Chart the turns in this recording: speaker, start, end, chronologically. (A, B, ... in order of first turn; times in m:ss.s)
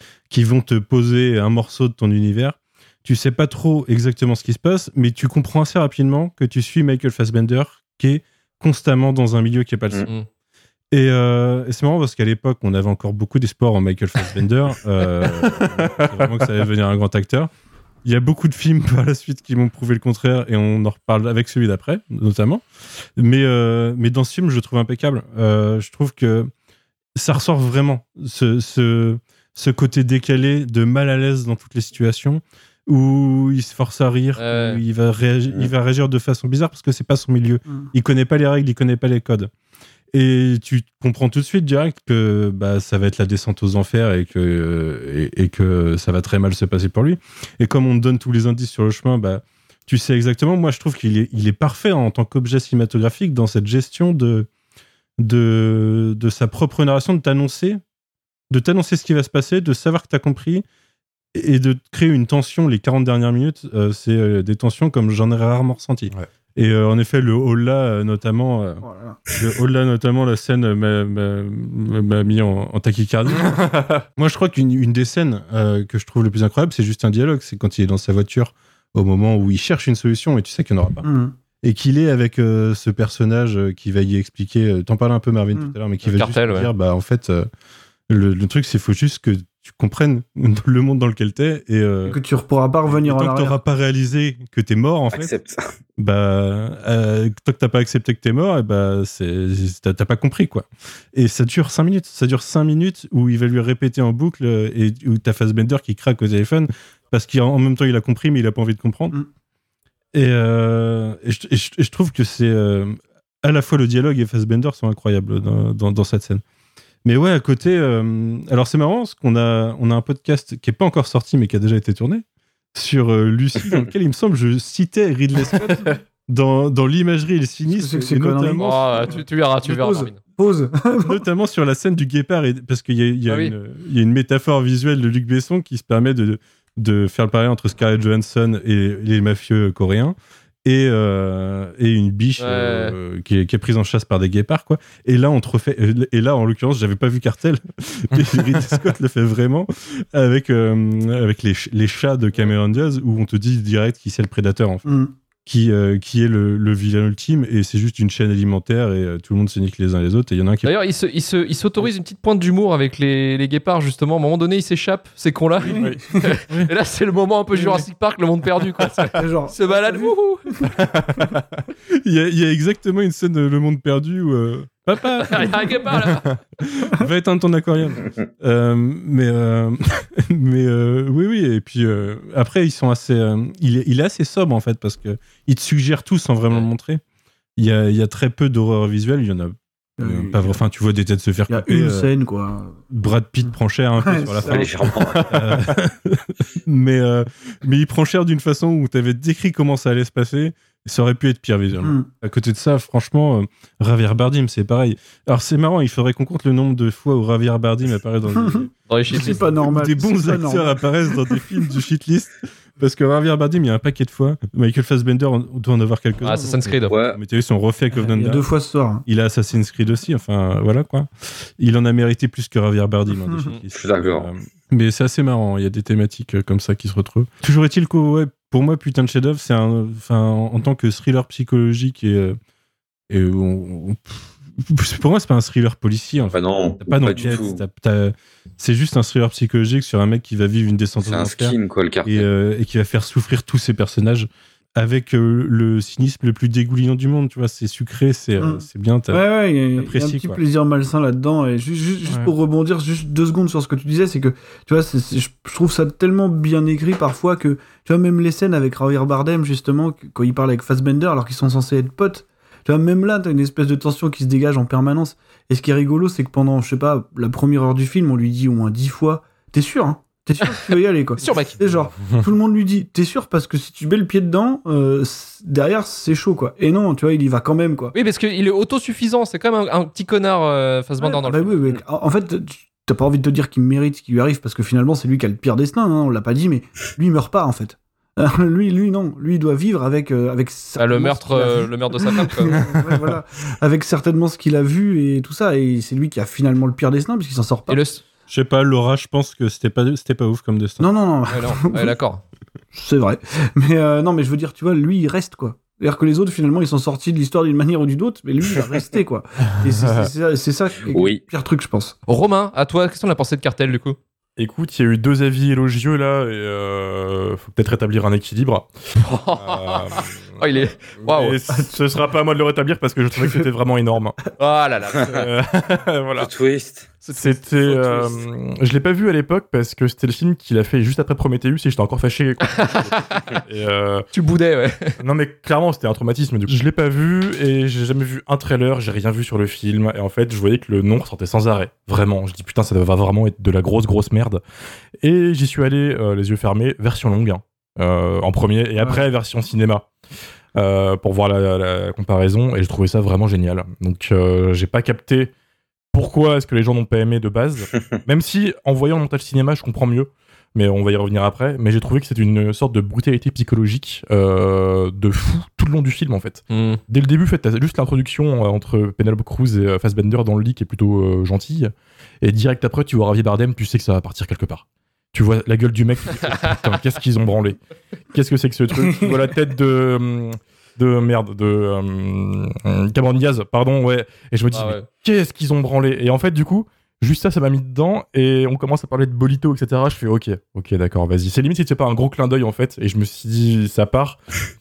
0:00.3-0:10.1 A
0:10.9-0:17.5 A
0:15.4-0:16.4 B
0:18.0-0:22.6 A
0:23.2-0:26.5 A
0:27.2-0:39.5 A
0:34.4-0:34.8 C
0:40.1-0:54.5 A
0:55.2-0:57.8 A
0:58.5-1:00.6 A
1:01.4-1:13.6 A
1:08.8-1:09.2 D
1:13.4-1:14.0 B
1:14.2-1:21.1 A
1:21.0-1:21.3 D
1:21.6-1:27.5 A
1:26.0-1:26.7 C
1:28.1-1:32.2 A
1:32.1-1:33.6 D
1:32.9-1:35.3 A
1:35.1-1:35.6 E
1:36.0-1:49.2 A
1:50.1-1:56.4 A
1:57.0-2:08.7 A
2:05.6-2:05.9 B
2:07.7-2:11.2 D
2:08.6-2:10.2 C
2:11.0-2:34.9 A
2:13.3-2:13.6 C
2:22.4-2:23.0 C
2:34.9-2:35.1 D
2:35.5-2:40.7 A
2:40.6-2:50.4 C
2:45.7-2:46.0 D
2:45.7-2:46.0 B
2:47.6-2:47.8 D
2:49.2-2:50.7 D
2:50.9-2:51.4 B
2:52.0-2:55.8 A
2:55.3-2:56.2 C
2:56.8-3:07.0 A
3:07.6-3:12.1 A
3:10.0-3:10.6 D
3:11.5-3:12.8 D
3:12.9-3:28.7 A
3:14.0-3:15.0 D
3:14.4-3:15.3 E
3:15.1-3:15.8 B
3:28.4-3:30.7 D
3:28.9-3:29.5 C
3:29.2-3:38.4 A
3:36.2-3:37.0 C
3:36.9-3:37.2 E
3:38.0-3:39.0 D
3:39.1-3:52.4 A
3:43.8-3:44.3 E
3:53.1-4:09.2 A
3:56.3-3:57.6 E
4:01.0-4:02.3 E
4:08.4-4:37.9 D
4:09.8-4:10.4 A
4:31.2-4:31.6 C
4:32.0-4:32.2 B
4:37.9-4:41.6 C
4:41.0-4:57.8 D
4:50.8-4:52.7 C
4:57.7-4:58.0 C
4:58.3-5:00.9 A
5:00.8-5:01.9 D
5:01.3-5:02.2 C
5:02.7-5:12.0 D
5:09.6-5:10.1 B
5:10.9-5:11.2 E
5:12.1-5:14.0 C
5:14.4-5:18.7 B
5:19.0-5:21.4 C
5:19.4-5:20.2 B
5:21.0-5:24.2 B
5:23.2-5:23.4 D
5:24.4-5:25.2 C
5:25.1-5:26.3 B
5:26.2-5:26.9 E
5:27.0-5:28.2 C
5:27.2-5:34.1 B
5:32.5-5:33.0 C
5:34.1-5:35.0 C
5:35.0-5:44.4 B
5:45.0-5:49.9 B
5:50.6-5:55.3 B
5:55.9-6:17.6 B
6:06.5-6:06.8 C
6:18.1-6:34.2 B
6:18.7-6:19.3 D
6:24.5-6:24.9 C